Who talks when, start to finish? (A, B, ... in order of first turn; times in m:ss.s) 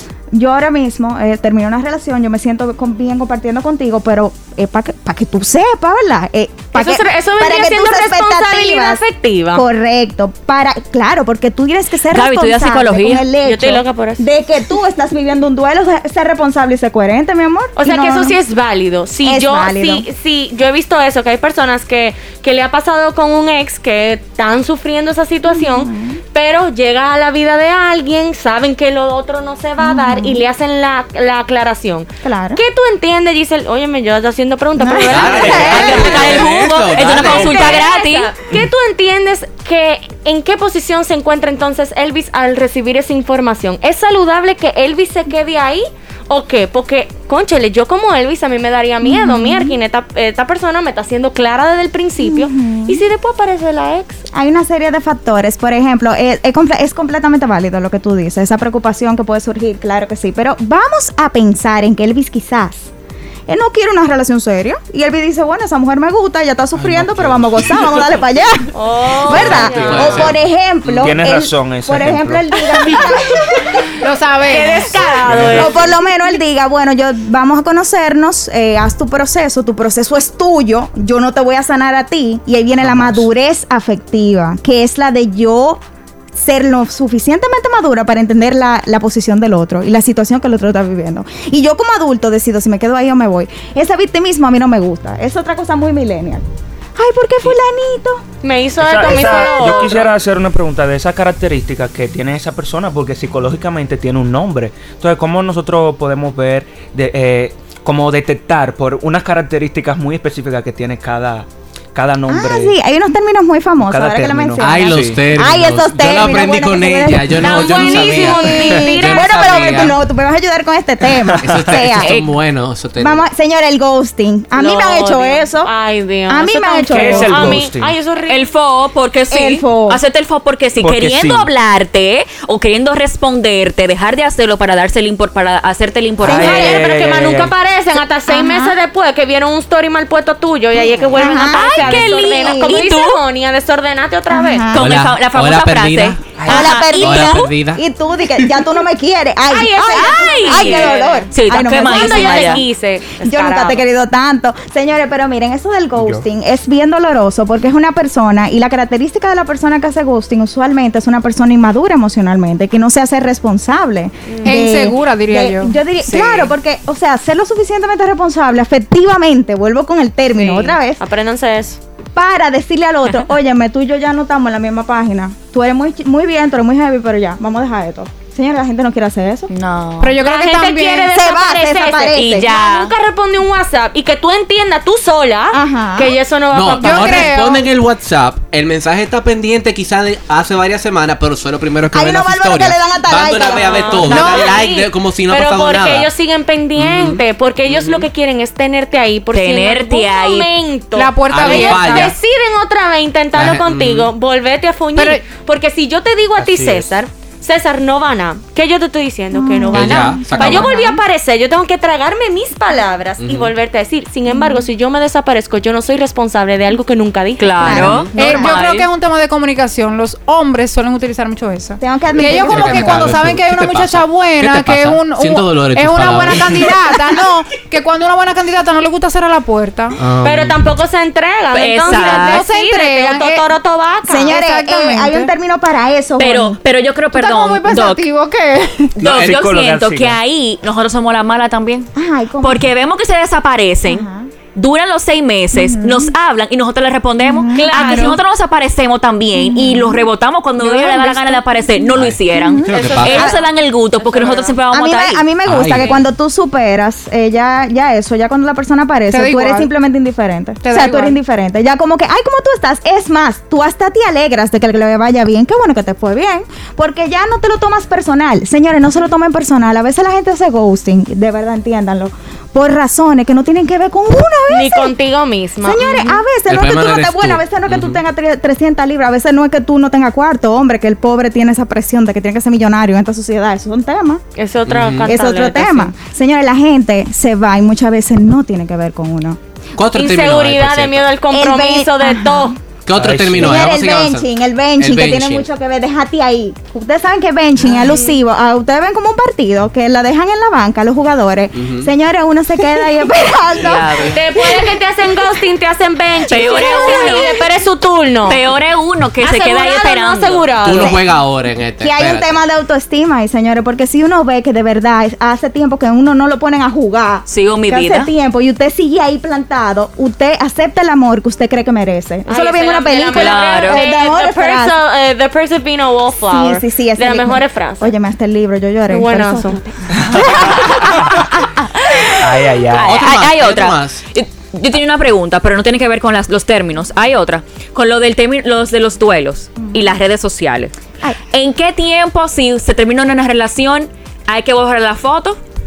0:00.3-0:09.0 A
0:06.7-0:09.6 B
0:09.6-0:18.4 A
0:12.1-0:13.3 C
0:13.4-0:14.2 B
0:17.8-0:36.4 B
0:19.2-0:20.0 A
0:25.5-0:26.2 A
0:29.8-0:30.4 A
0:32.2-0:32.6 A
0:34.8-0:36.3 A
0:35.1-0:37.8 D
0:35.3-0:36.0 E
0:35.5-0:38.3 C
0:37.0-0:54.2 B
0:49.0-0:49.8 A
0:52.2-0:53.0 A
0:54.3-1:02.9 A
1:03.5-1:13.9 A
1:06.8-1:07.9 E
1:07.7-1:08.0 D
1:08.7-1:10.3 B
1:09.3-1:10.3 E
1:09.4-1:11.2 D
1:11.0-1:12.4 E
1:14.0-1:15.1 F
1:14.5-1:16.0 B
1:15.0-1:25.8 A
1:15.2-1:15.8 E
1:22.8-1:23.3 E
1:26.3-1:36.4 A
1:37.0-1:38.2 A
1:38.4-1:40.1 B
1:38.8-1:52.8 E
1:39.0-1:39.4 A
1:52.3-2:02.1 A
1:53.8-1:55.2 E
1:54.6-2:00.0 D
1:57.4-1:59.9 B
2:01.3-2:01.5 E
2:01.4-2:03.2 D
2:02.0-2:02.3 C
2:03.0-2:05.7 A
2:04.5-2:08.4 B
2:06.3-2:07.6 A
2:06.9-2:07.9 E
2:08.3-2:16.8 C
2:09.3-2:10.0 A
2:10.8-2:11.5 E
2:16.2-2:17.5 E
2:16.2-2:24.7 B
2:18.3-2:18.8 A
2:20.7-2:22.8 A
2:21.3-2:23.2 C
2:21.7-2:22.0 D
2:24.3-2:24.9 A
2:24.7-2:27.5 C
2:24.7-2:27.8 D
2:26.4-2:26.7 E
2:26.4-2:32.6 A
2:29.5-2:33.8 B
2:29.9-2:32.6 C
2:33.2-2:51.0 A
2:44.3-2:44.6 B
2:44.4-2:45.8 F
2:46.0-2:46.5 C
2:50.3-2:51.8 B
2:52.1-2:59.5 A
2:59.6-3:00.1 C
3:00.0-3:01.1 F
3:00.1-3:07.4 B
3:01.1-3:02.5 A
3:02.1-3:02.9 C
3:05.5-3:06.2 A
3:06.5-3:16.1 D
3:06.8-3:07.6 F
3:11.9-3:14.3 A
3:13.5-3:38.5 B
3:14.1-3:14.6 F
3:16.8-3:18.1 D
3:19.3-3:20.5 C
3:20.9-3:22.1 F
3:21.3-3:22.1 D
3:23.3-3:24.1 D
3:25.0-3:25.2 F
3:26.4-3:26.9 E
3:29.3-3:31.0 A
3:29.7-3:30.7 D
3:33.2-3:33.5 D
3:34.3-3:34.6 A
3:37.4-3:38.9 C
3:37.6-3:38.1 A
3:37.6-3:38.2 D
3:38.2-3:50.0 F
3:41.8-3:43.2 A
3:42.3-3:47.0 D
3:50.0-3:50.7 D
3:50.2-3:55.2 B
3:51.5-3:52.4 C
3:51.9-3:53.5 F
3:54.1-3:56.6 A
3:54.3-3:55.3 F
3:56.2-3:58.0 C
3:57.1-3:58.9 F
3:59.0-4:15.2 C
3:59.0-4:00.2 E
3:59.0-3:59.3 D
4:02.0-4:02.7 A
4:03.9-4:04.3 A
4:05.5-4:06.1 A
4:07.2-4:08.1 A
4:07.6-4:08.2 B
4:09.3-4:10.0 A
4:11.0-4:13.3 A
4:11.9-4:13.3 D
4:12.7-4:14.6 B
4:14.7-4:34.9 A
4:15.4-4:16.0 D
4:19.1-4:19.7 F
4:20.6-4:21.2 F
4:34.5-4:36.2 B
4:35.6-4:44.2 A
4:36.4-4:38.0 D
4:44.4-4:45.9 B
4:44.7-4:45.1 D
4:45.0-4:49.4 A
4:49.8-4:51.1 D
4:50.0-4:52.6 B
4:51.3-4:52.6 A
4:52.9-4:55.5 D
4:52.9-4:53.7 E
4:53.4-5:04.8 A
4:57.6-4:58.2 B
5:01.5-5:01.9 D
5:03.6-5:04.2 C
5:04.1-5:08.4 B
5:06.3-5:07.4 C
5:06.3-5:07.5 A
5:08.3-5:10.4 C
5:09.2-5:11.0 B
5:10.6-5:12.4 D
5:10.8-5:11.1 A
5:11.8-5:24.7 A
5:17.3-5:18.1 C
5:22.3-5:27.9 B
5:23.1-5:23.8 C
5:26.3-5:29.7 A
5:28.9-5:29.6 B
5:30.0-5:30.3 E
5:30.3-5:40.7 C
5:32.2-5:33.0 E
5:32.8-5:34.0 D
5:41.3-5:45.4 C